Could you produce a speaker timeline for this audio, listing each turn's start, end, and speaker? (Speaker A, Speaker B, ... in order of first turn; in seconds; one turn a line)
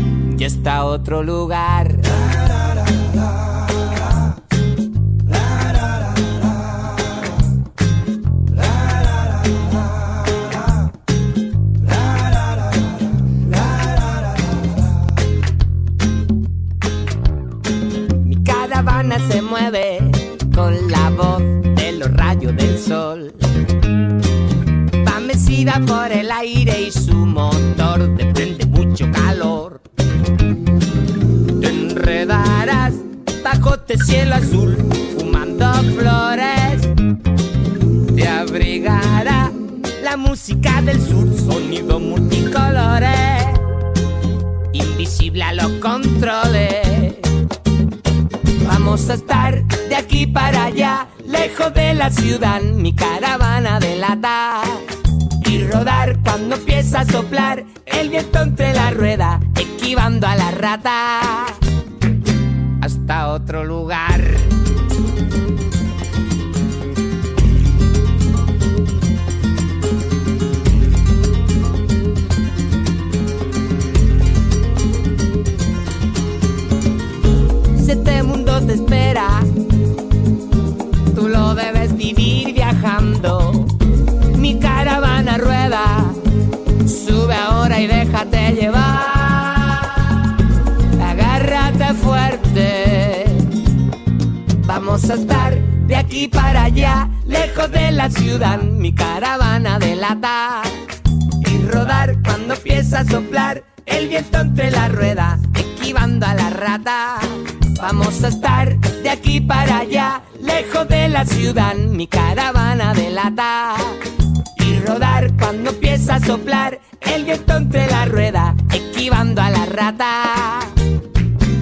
Speaker A: 0.3-2.4
Speaker A: 18.2-23.5
Speaker A: 25.0-29.8
Speaker A: 31.5-36.9
Speaker A: 38.1-43.7
Speaker A: 44.7-47.3
Speaker A: 48.6-54.9
Speaker A: 55.4-61.6
Speaker A: 62.8-64.6
Speaker A: 77.7-79.5
Speaker A: 81.1-83.8
Speaker A: 84.3-86.2
Speaker A: 86.8-90.3
Speaker A: 91.0-93.7
Speaker A: 94.6-114.0
Speaker A: 114.5-120.8